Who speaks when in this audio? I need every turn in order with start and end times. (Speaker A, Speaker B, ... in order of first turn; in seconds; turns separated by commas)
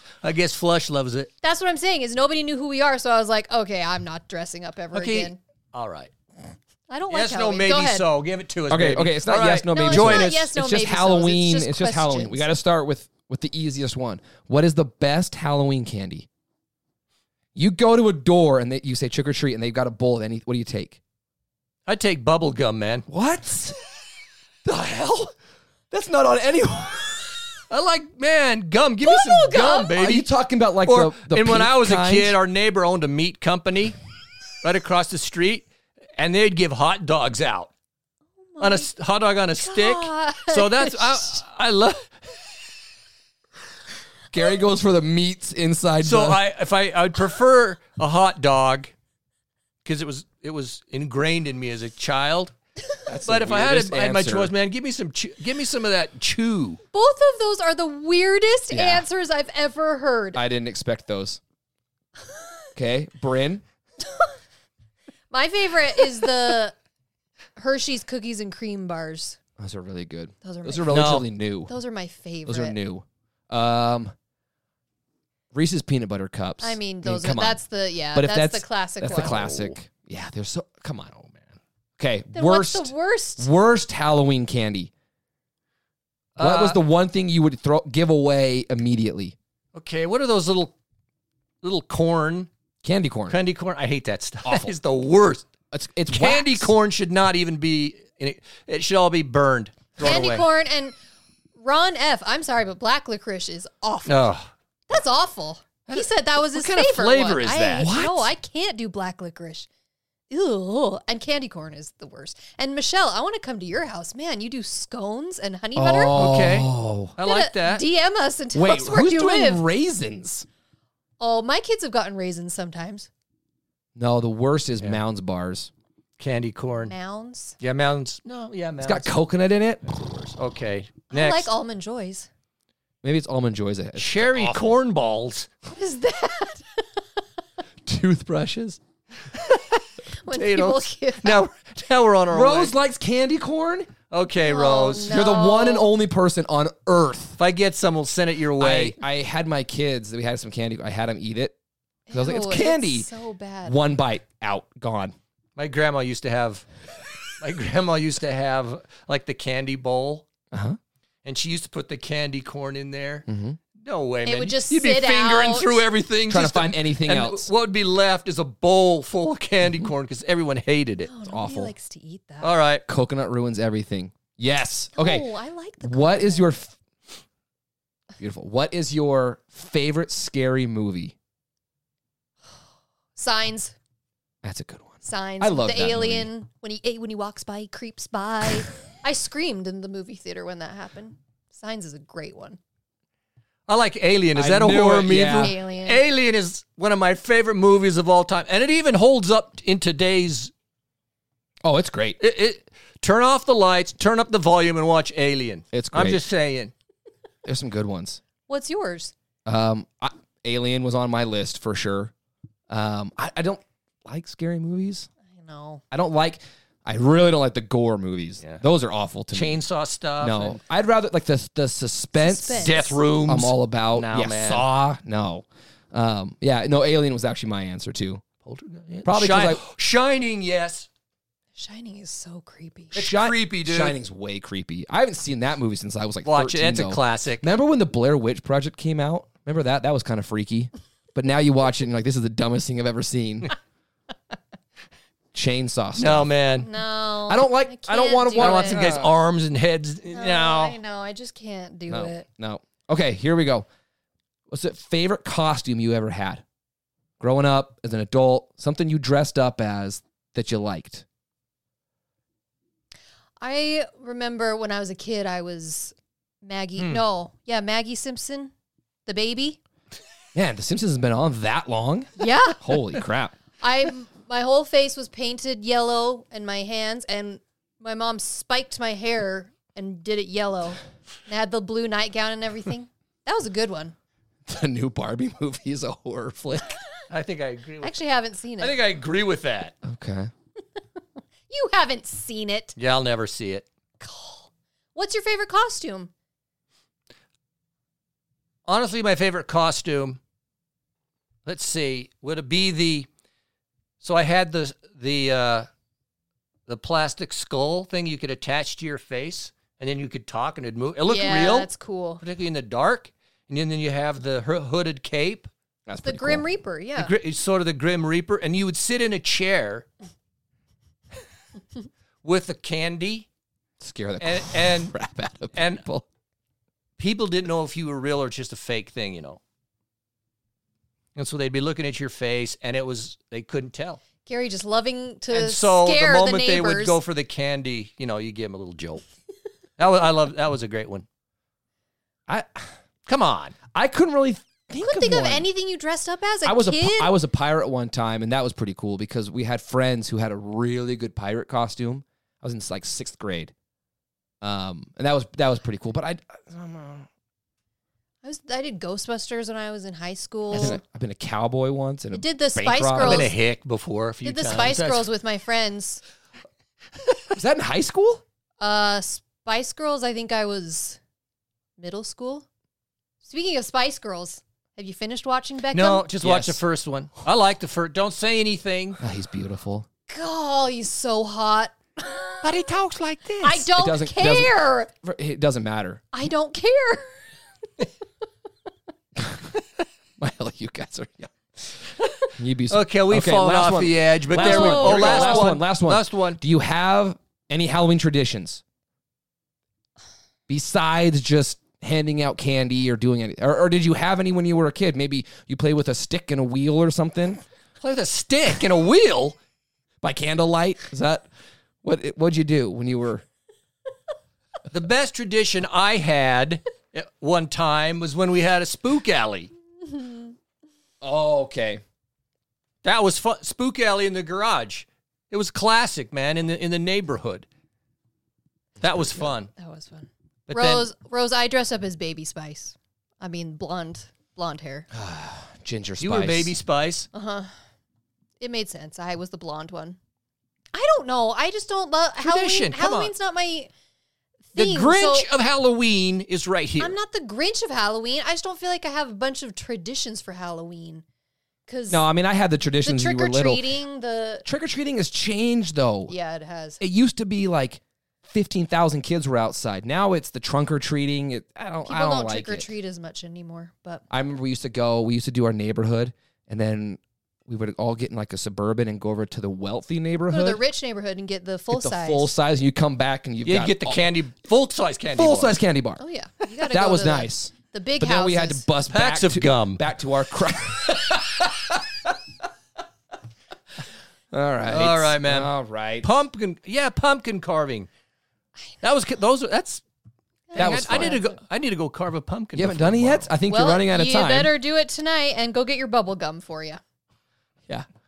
Speaker A: 0.2-1.3, Speaker B: 1.4-5.4, Speaker A: 4.9-6.1, Speaker B: 6.9-8.1, Speaker A: 7.1-10.5, Speaker C: 8.7-16.3, Speaker B: 9.7-12.5, Speaker C: 17.5-21.0, Speaker A: 21.9-23.0, Speaker C: 23.1-23.8, Speaker C: 24.6-25.3, Speaker C: 25.9-27.3, Speaker A: 27.7-30.3, Speaker B: 29.0-29.9, Speaker C: 29.8-32.4, Speaker A: 30.8-34.0, Speaker A: 34.6-37.7, Speaker B: 38.5-38.9, Speaker A: 38.6-42.1, Speaker B: 39.6-41.4, Speaker C: 44.3-46.4, Speaker A: 46.0-48.9, Speaker A: 49.8-52.5, Speaker C: 53.1-54.5, Speaker A: 53.2-56.8, Speaker B: 56.9-60.4, Speaker C: 58.7-59.0, Speaker C: 60.3-61.4, Speaker C: 62.8-63.6, Speaker B: 65.3-66.7, Speaker B: 67.5-69.4, Speaker C: 69.6-71.7, Speaker B: 70.4-72.8, Speaker A: 70.9-71.3, Speaker C: 72.5-74.1, Speaker C: 75.5-77.6, Speaker B: 76.6-79.7, Speaker C: 78.1-81.1, Speaker A: 79.2-79.5, Speaker A: 81.1-81.6, Speaker C: 82.0-84.9, Speaker B: 82.3-83.5, Speaker A: 86.3-86.8, Speaker C: 86.4-89.3, Speaker A: 89.7-90.7, Speaker A: 91.6-92.5, Speaker C: 92.8-93.4, Speaker A: 93.3-95.5, Speaker C: 94.4-94.7, Speaker C: 95.7-96.7, Speaker A: 96.1-100.5, Speaker B: 100.0-101.0, Speaker B: 101.5-104.3, Speaker A: 104.0-104.5, Speaker B: 104.9-109.7, Speaker A: 105.9-107.9, Speaker C: 107.8-108.3, Speaker B: 110.3-116.2, Speaker C: 115.7-117.1, Speaker A: 116.1-117.8, Speaker B: 117.2-119.6, Speaker C: 118.5-120.5, Speaker B: 121.2-123.1, Speaker C: 124.0-125.7, Speaker A: 126.2-126.9, Speaker B: 126.9-127.5, Speaker A: 127.6-129.1, Speaker C: 128.8-129.8, Speaker A: 129.9-131.5, Speaker B: 131.1-132.3, Speaker C: 133.0-134.8, Speaker A: 134.0-135.5, Speaker B: 135.7-136.8, Speaker C: 137.8-138.8, Speaker B: 140.1-141.4, Speaker A: 140.3-142.7, Speaker C: 142.3-143.9, Speaker A: 144.1-145.2, Speaker B: 144.4-145.9, Speaker C: 145.1-147.4, Speaker A: 147.4-148.9, Speaker C: 148.6-151.5, Speaker B: 152.1-153.8, Speaker C: 152.1-153.1, Speaker C: 153.6-155.1, Speaker A: 155.6-156.7, Speaker A: 157.3-160.2, Speaker C: 160.5-160.8, Speaker A: 161.2-171.1, Speaker C: 163.3-163.6, Speaker B: 164.2-165.8, Speaker C: 166.3-167.5, Speaker B: 171.1-172.5, Speaker C: 171.2-171.7, Speaker A: 172.4-172.8, Speaker C: 172.9-175.3, Speaker B: 174.9-176.5, Speaker C: 175.8-176.8, Speaker C: 178.2-181.1, Speaker B: 183.2-183.7, Speaker C: 184.4-186.3, Speaker B: 185.0-192.6, Speaker A: 193.7-200.5, Speaker C: 194.3-195.5, Speaker B: 195.4-196.0, Speaker C: 201.6-202.2, Speaker A: 202.2-206.7, Speaker C: 205.7-206.2, Speaker C: 207.4-208.2, Speaker B: 208.5-209.1, Speaker C: 209.4-212.1, Speaker C: 212.7-215.1, Speaker B: 215.3-215.8, Speaker C: 215.9-219.6, Speaker A: 219.3-220.6, Speaker C: 220.2-228.2, Speaker B: 222.1-223.0, Speaker A: 222.6-224.7, Speaker A: 228.4-230.9, Speaker C: 229.0-229.6, Speaker B: 231.5-233.0, Speaker A: 232.9-233.9, Speaker C: 232.9-243.5, Speaker A: 236.2-237.5, Speaker C: 245.3-246.3, Speaker A: 245.9-246.7, Speaker B: 246.6-248.8, Speaker C: 247.3-249.1, Speaker A: 248.4-250.8, Speaker B: 250.1-252.2, Speaker C: 251.9-253.7, Speaker C: 254.5-256.4, Speaker C: 257.2-261.0, Speaker B: 263.4-268.5, Speaker B: 269.1-269.6, Speaker C: 270.3-273.4, Speaker B: 272.2-272.6, Speaker B: 273.6-283.9, Speaker C: 284.4-286.8, Speaker A: 287.1-288.0, Speaker B: 287.8-288.8, Speaker A: 288.6-289.7, Speaker C: 289.8-290.3, Speaker B: 291.5-292.8, Speaker A: 292.8-293.6, Speaker B: 294.0-296.1, Speaker A: 298.7-300.2, Speaker A: 301.4-303.1, Speaker A: 304.0-305.7, Speaker A: 306.7-311.7, Speaker B: 311.1-312.2, Speaker A: 312.2-315.5, Speaker C: 315.9-316.4, Speaker B: 316.0-317.1, Speaker A: 316.9-319.9, Speaker A: 322.2-323.3, Speaker C: 323.8-326.1, Speaker A: 324.2-324.9, Speaker A: 325.5-325.8, Speaker A: 327.0-329.4, Speaker A: 331.1-334.0, Speaker B: 334.2-337.0, Speaker A: 335.3-339.0, Speaker A: 339.8-341.1, Speaker C: 342.3-342.7, Speaker A: 343.1-343.6, Speaker C: 343.7-345.5, Speaker B: 344.8-347.1, Speaker C: 346.4-353.5, Speaker C: 354.4-357.1, Speaker B: 358.2-360.8, Speaker C: 360.5-363.3, Speaker B: 362.1-363.3, Speaker A: 363.0-365.1, Speaker B: 364.2-366.0, Speaker C: 367.3-368.2, Speaker B: 368.6-371.0, Speaker B: 371.8-372.4, Speaker B: 373.2-376.1, Speaker A: 375.7-379.0, Speaker C: 376.2-376.6, Speaker C: 379.0-379.9, Speaker B: 380.1-382.4, Speaker A: 382.4-383.6, Speaker B: 383.4-384.9, Speaker C: 383.7-386.0, Speaker B: 386.1-387.2, Speaker C: 389.2-389.5, Speaker C: 390.2-391.6, Speaker A: 392.0-396.4, Speaker C: 392.4-398.6, Speaker B: 394.4-395.5, Speaker C: 400.5-407.4, Speaker A: 407.8-409.4, Speaker C: 410.0-411.3, Speaker C: 411.8-413.2, Speaker A: 414.7-419.5, Speaker C: 421.0-421.8, Speaker A: 422.8-427.4, Speaker C: 428.8-429.3, Speaker A: 428.8-429.5, Speaker B: 429.6-434.9, Speaker A: 430.5-430.9, Speaker C: 434.9-436.6, Speaker A: 436.0-437.1, Speaker B: 437.1-437.5, Speaker B: 438.4-440.0, Speaker B: 440.7-443.7, Speaker A: 442.2-443.1, Speaker B: 444.5-445.3, Speaker A: 444.5-447.0, Speaker B: 446.8-451.0, Speaker B: 451.7-452.0, Speaker C: 451.9-453.7, Speaker B: 452.8-454.4, Speaker C: 454.4-456.1, Speaker B: 456.1-456.8, Speaker C: 456.8-462.7, Speaker B: 461.9-464.0, Speaker C: 464.1-470.6, Speaker B: 470.3-472.3, Speaker C: 471.7-474.0, Speaker A: 473.4-475.6, Speaker C: 475.1-476.0, Speaker B: 476.0-478.6, Speaker C: 476.6-482.1, Speaker A: 478.9-479.8, Speaker C: 484.3-486.1, Speaker A: 484.7-487.9, Speaker A: 488.8-489.8, Speaker B: 490.5-491.4, Speaker A: 490.5-493.3, Speaker C: 490.6-491.2, Speaker C: 492.5-494.5, Speaker B: 493.5-496.8